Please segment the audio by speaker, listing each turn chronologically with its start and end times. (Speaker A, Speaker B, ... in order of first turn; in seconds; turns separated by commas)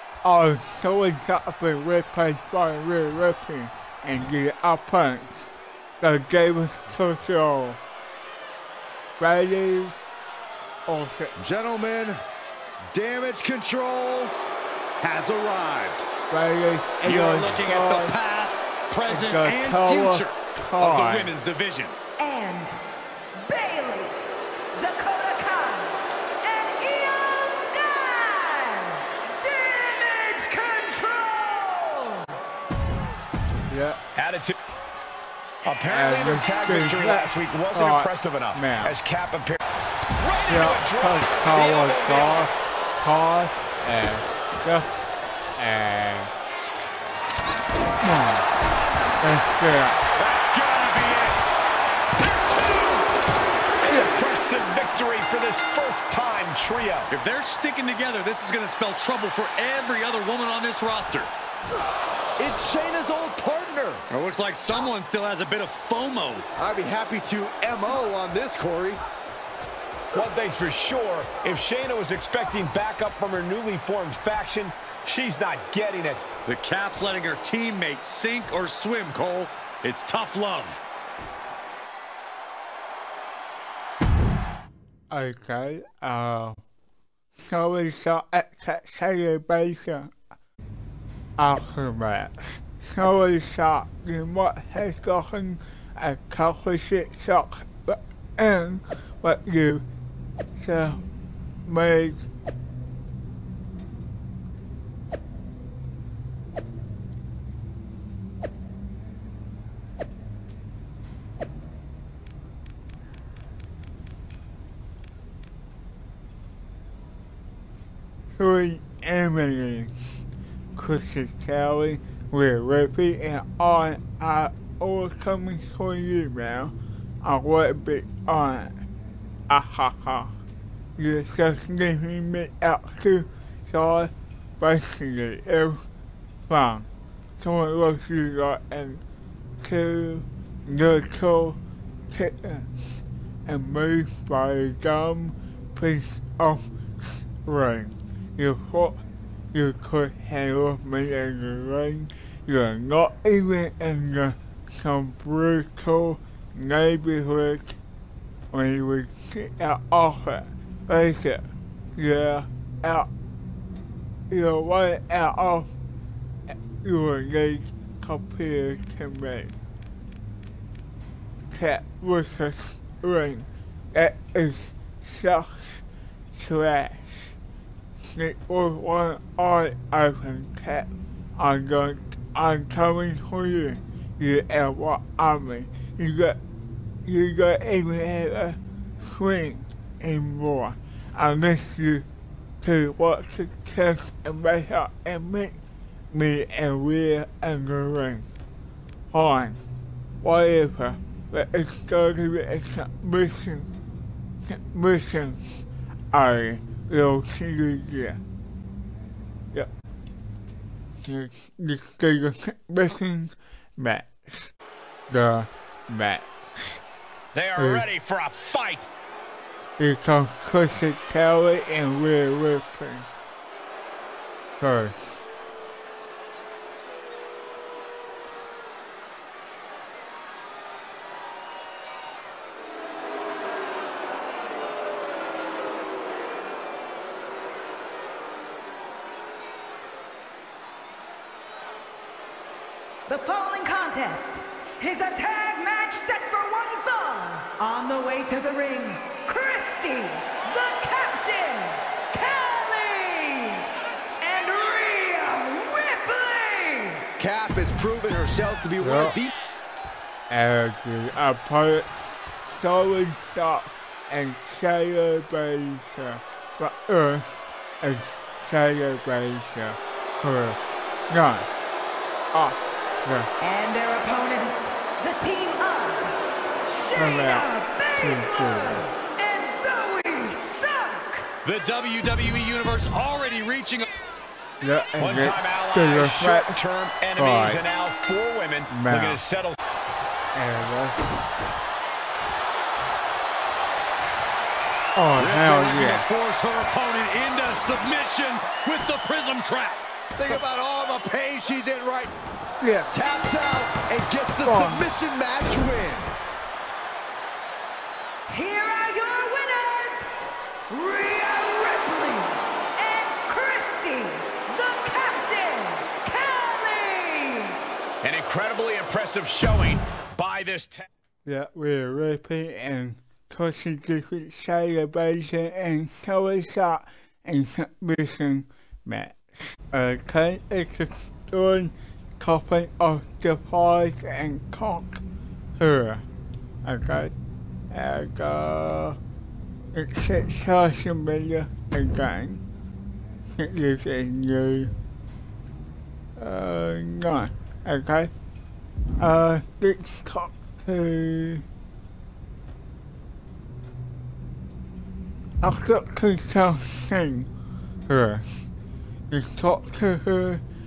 Speaker A: 0.2-7.8, Speaker A: 9.2-10.0, Speaker A: 10.9-11.3, Speaker B: 11.4-12.2, Speaker B: 12.9-14.3, Speaker B: 15.0-16.0, Speaker A: 16.3-18.1, Speaker C: 17.0-21.9, Speaker A: 19.1-21.3, Speaker D: 22.2-22.7, Speaker D: 23.4-24.2, Speaker D: 24.7-32.3, Speaker A: 33.7-34.0, Speaker E: 34.1-34.6, Speaker E: 35.6-39.6, Speaker A: 35.8-39.0, Speaker E: 40.2-42.5, Speaker A: 40.5-46.3, Speaker A: 48.0-48.5, Speaker A: 49.2-50.0, Speaker C: 50.2-51.4, Speaker E: 53.8-57.1, Speaker C: 57.1-61.3, Speaker B: 62.4-64.0, Speaker C: 64.1-66.4, Speaker B: 66.6-69.0, Speaker E: 70.1-76.3, Speaker C: 76.5-80.8, Speaker A: 85.1-86.6, Speaker A: 87.4-90.1, Speaker A: 91.4-99.8, Speaker A: 100.5-101.0, Speaker A: 101.6-102.3, Speaker A: 118.3-120.2, Speaker A: 120.8-128.8, Speaker A: 129.5-130.3, Speaker A: 131.0-135.8, Speaker A: 136.5-139.0, Speaker A: 139.6-149.0, Speaker A: 149.5-157.8, Speaker A: 158.5-163.1, Speaker A: 164.3-165.7, Speaker A: 166.5-169.5, Speaker A: 171.5-177.4, Speaker A: 178.0-186.4, Speaker A: 187.0-192.1, Speaker A: 192.6-198.3, Speaker A: 199.1-199.6, Speaker A: 200.2-203.7, Speaker A: 204.4-208.2, Speaker A: 211.0-214.5, Speaker A: 215.1-216.8, Speaker E: 217.3-218.9, Speaker A: 217.6-217.9, Speaker A: 219.8-223.1, Speaker A: 224.6-225.2, Speaker D: 243.1-257.0, Speaker B: 257.2-259.3, Speaker A: 258.8-259.2, Speaker A: 260.3-271.5, Speaker A: 272.3-273.3, Speaker D: 273.4-276.2, Speaker D: 276.7-281.3, Speaker A: 276.9-278.8, Speaker C: 281.4-283.9, Speaker A: 284.6-286.6, Speaker E: 285.0-289.6, Speaker A: 287.1-287.6, Speaker A: 288.7-289.2, Speaker A: 290.3-291.1, Speaker A: 294.9-296.1, Speaker C: 295.2-299.8, Speaker B: 300.1-302.1, Speaker A: 302.6-303.0, Speaker B: 302.9-306.1, Speaker A: 304.4-304.8, Speaker D: 308.3-310.2, Speaker D: 310.7-317.6, Speaker E: 318.0-320.9, Speaker A: 321.2-335.0, Speaker A: 335.6-336.0, Speaker A: 336.6-337.1, Speaker A: 337.7-339.0, Speaker A: 339.7-342.4, Speaker A: 343.4-344.7, Speaker A: 346.2-348.1, Speaker A: 349.0-351.4, Speaker A: 355.4-357.3, Speaker A: 357.9-358.5, Speaker A: 359.1-360.4